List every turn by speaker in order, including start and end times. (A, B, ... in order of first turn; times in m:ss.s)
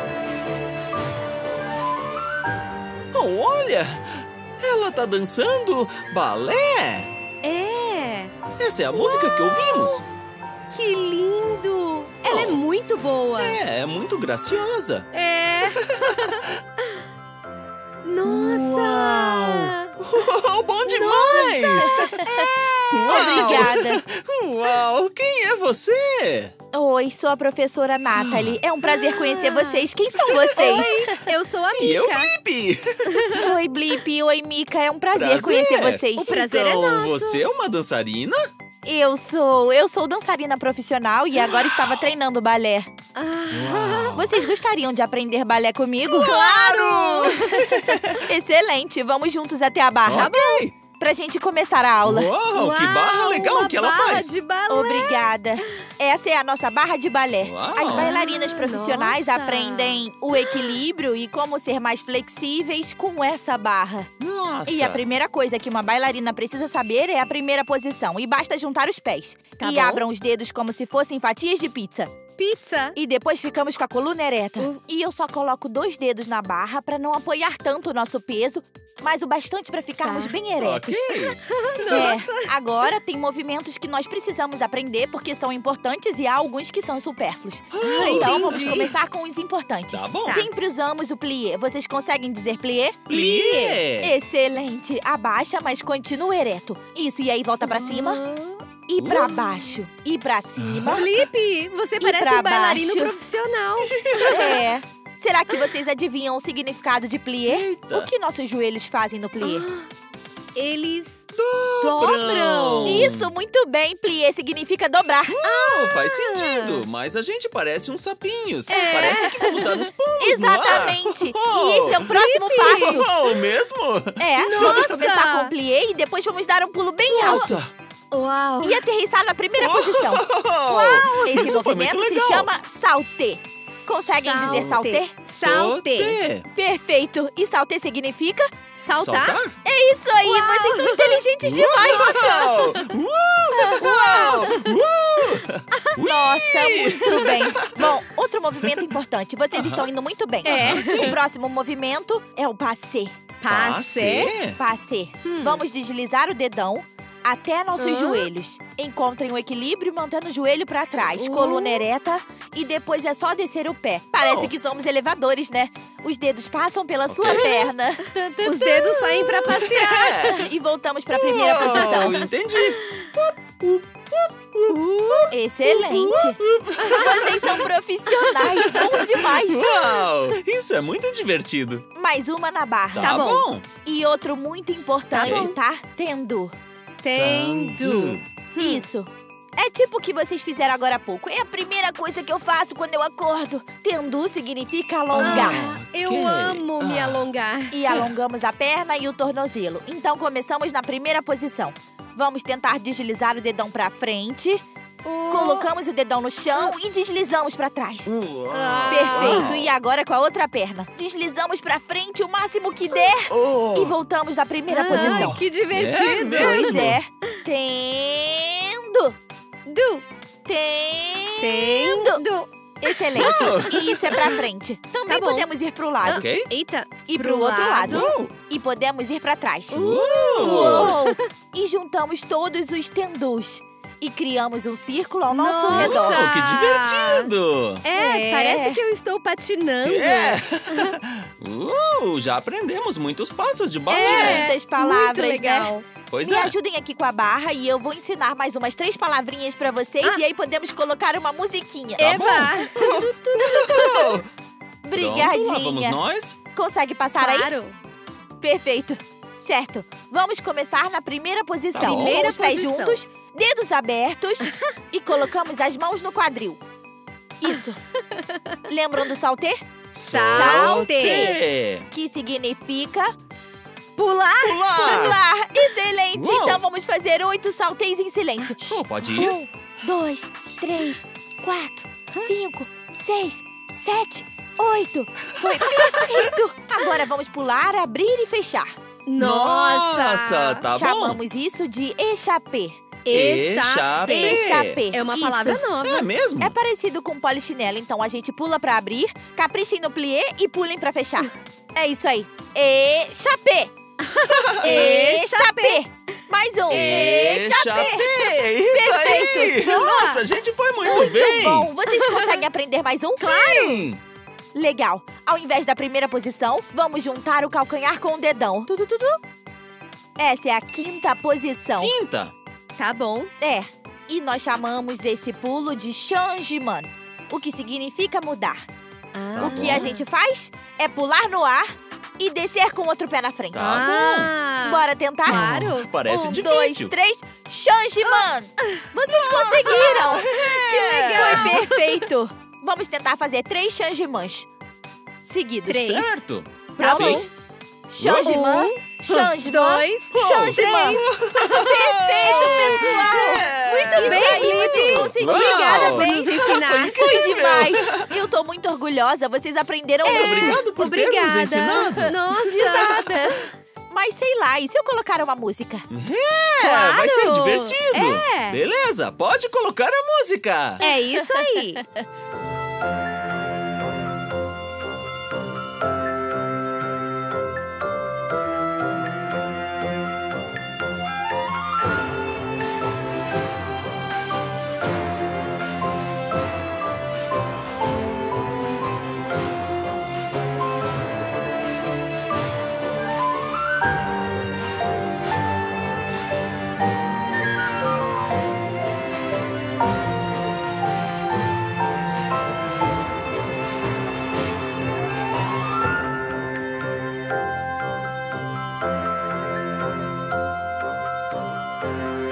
0:03.1-0:07.1 A
0:07.4-0:08.3 B
0:08.6-0:10.0 A
0:08.9-0:10.0 B
0:10.7-0:13.6 B
0:12.2-0:12.6 A
0:13.4-0:15.1 A
0:15.1-0:17.0 B
0:15.6-0:16.6 A
0:18.0-0:19.9 B
0:18.2-0:22.2 A
0:20.8-0:23.8 B
0:21.8-0:22.3 C
0:22.9-0:26.5 A
0:23.1-0:24.0 C
0:26.7-0:31.2 C
0:28.9-0:29.8 B
0:30.3-0:30.9 A
0:30.5-0:32.3 B
0:31.7-0:33.4 A
0:33.0-0:33.5 B
0:33.3-0:36.4 C
0:35.1-0:38.5 A
0:36.2-0:37.4 B
0:38.8-0:42.9 C
0:41.7-0:41.9 A
0:43.1-0:44.2 B
0:43.5-0:44.4 A
0:44.1-0:50.3 C
0:46.1-0:48.3 A
0:46.2-0:48.0 B
0:50.0-0:50.7 A
0:50.1-0:50.6 B
0:50.9-0:52.3 C
0:52.0-0:54.3 A
0:52.5-0:55.2 B
0:54.7-1:04.1 C
0:57.4-0:58.1 A
0:57.9-1:00.0 B
1:04.2-1:05.0 A
1:04.6-1:12.1 C
1:09.6-1:10.0 B
1:12.4-1:13.0 B
1:12.9-1:21.2 C
1:20.0-1:20.3 B
1:20.6-1:21.4 A
1:21.5-1:22.5 B
1:21.9-1:38.2 C
1:27.7-1:28.9 A
1:27.8-1:28.9 B
1:29.9-1:30.5 A
1:33.1-1:34.1 A
1:37.6-1:38.6 B
1:38.9-1:41.1 C
1:39.0-1:39.3 A
1:40.6-1:41.1 A
1:40.9-1:44.6 B
1:42.0-1:43.1 C
1:43.8-1:44.6 A
1:44.2-1:49.6 C
1:47.5-1:48.1 A
1:49.4-1:49.9 B
1:50.6-1:51.2 B
1:51.3-1:53.3 A
1:51.8-1:53.1 B
1:52.8-1:55.4 C
1:55.3-2:05.0 A
1:55.4-1:56.8 B
1:58.7-1:59.8 B
1:58.7-1:59.6 C
2:00.2-2:03.1 C
2:02.1-2:03.1 B
2:04.2-2:07.6 C
2:04.4-2:05.5 B
2:07.0-2:07.7 A
2:08.1-2:08.8 B
2:08.6-2:15.2 C
2:09.6-2:12.5 A
2:10.8-2:11.6 B
2:13.7-2:16.2 B
2:15.3-2:16.4 A
2:16.5-2:18.5 C
2:18.8-2:19.4 B
2:19.0-2:19.6 A
2:19.6-2:22.6 C
2:20.2-2:21.2 B
2:21.4-2:28.0 A
2:23.6-2:24.4 C
2:26.0-2:33.2 C
2:29.5-2:29.8 A
2:30.4-2:31.2 A
2:30.4-2:31.2 B
2:33.4-2:34.3 B
2:33.5-2:34.6 A
2:34.6-2:52.2 C
2:35.2-2:35.6 B
2:37.8-2:38.3 B
2:41.1-2:41.9 B
2:44.2-2:44.5 A
2:47.1-2:47.5 A
2:47.3-2:47.7 B
2:48.4-2:50.4 B
2:49.5-2:50.5 A
2:51.1-2:57.6 A
2:51.7-2:53.1 B
2:54.7-2:55.3 B
2:55.3-3:00.0 C
2:56.8-2:57.2 B
2:58.2-3:01.8 A
3:02.0-3:03.2 C
3:02.9-3:03.6 A
3:03.0-3:03.5 B
3:03.8-3:06.5 C
3:05.1-3:05.5 B
3:05.2-3:05.5 A
3:07.0-3:08.8 B
3:07.1-3:08.2 A
3:08.6-3:15.6 C
3:15.1-3:17.3 A
3:15.2-3:17.8 B
3:17.7-3:24.6 C
3:25.0-3:25.7 B
3:25.3-3:28.1 C
3:28.0-3:29.7 A
3:28.5-3:29.5 B
3:28.9-3:35.4 C
3:33.1-3:33.9 A
3:34.7-3:37.0 B
3:34.9-3:37.0 A
3:36.3-3:39.2 C
3:39.6-3:40.0 B
3:40.4-3:42.2 C
3:41.4-3:44.4 B
3:42.8-3:46.2 C
3:43.1-3:44.3 A
3:45.1-3:45.5 B
3:46.0-3:48.1 B
3:46.0-3:46.5 A
3:47.1-3:56.3 C
3:47.8-3:48.3 A
3:49.7-3:51.0 A
3:49.7-3:51.2 B
3:55.3-3:57.3 B
3:55.7-3:57.8 A
3:57.8-4:01.0 B
3:57.9-3:58.8 C
3:59.8-4:04.4 A
4:03.9-4:05.8 B
4:03.9-4:05.7 C
4:06.1-4:06.5 A
4:06.2-4:12.1 C
4:12.0-4:14.3 A
4:12.0-4:14.2 B
4:14.8-4:16.0 C
4:14.9-4:16.4 A
4:16.5-4:17.5 C
4:17.2-4:17.7 B
4:18.4-4:26.6 C
4:21.7-4:22.2 A
4:21.8-4:23.0 B
4:27.4-4:27.8 C
4:28.1-4:28.6 B
4:28.7-4:29.6 C
4:29.9-4:31.9 A
4:30.1-4:31.4 B
4:30.3-4:31.4 C
4:31.9-4:33.1 C
4:34.0-4:34.6 B
4:34.4-4:35.2 A
4:34.7-4:48.7 C
4:36.1-4:36.6 A
4:38.6-4:39.3 A
4:45.4-4:46.3 A
4:49.0-4:50.7 B
4:49.2-4:51.2 A
4:50.7-4:52.8 C
4:53.0-4:56.1 B
4:53.1-4:54.8 A
4:54.0-4:55.7 C
4:55.8-4:56.5 A
4:56.4-5:03.7 C
5:04.1-5:05.8 B
5:04.3-5:04.6 A
5:04.6-5:09.6 C
5:06.7-5:11.7 A
5:06.7-5:07.4 B
5:09.5-5:10.2 B
5:10.8-5:13.6 C
5:12.0-5:12.4 B
5:13.2-5:13.8 B
5:13.3-5:14.0 A
5:14.5-5:19.2 C
5:20.2-5:21.9 C
5:21.8-5:22.3 A
5:22.8-5:23.3 B
5:23.4-5:28.6 C
5:29.1-5:30.0 B
5:29.3-5:29.9 A
5:29.4-5:33.7 C
5:33.5-5:34.3 A
5:33.6-5:35.9 B
5:34.6-5:44.5 C
5:35.3-5:36.9 A
5:39.1-5:41.6 A
5:39.2-5:42.0 B
5:45.2-5:46.0 C
5:45.7-5:46.2 B
5:45.8-5:47.3 A
5:46.8-5:47.3 C
5:46.8-5:47.3 B
5:47.9-6:00.6 C
5:48.0-5:48.5 A
5:48.0-5:51.1 B
5:50.1-5:58.1 A
5:52.2-5:52.7 B
5:53.9-5:57.0 B
6:00.0-6:02.9 A
6:00.0-6:03.5 B
6:02.4-6:05.9 C
6:05.9-6:10.8 A
6:06.6-6:08.6 B
6:10.8-6:11.8 B
6:10.8-6:11.5 C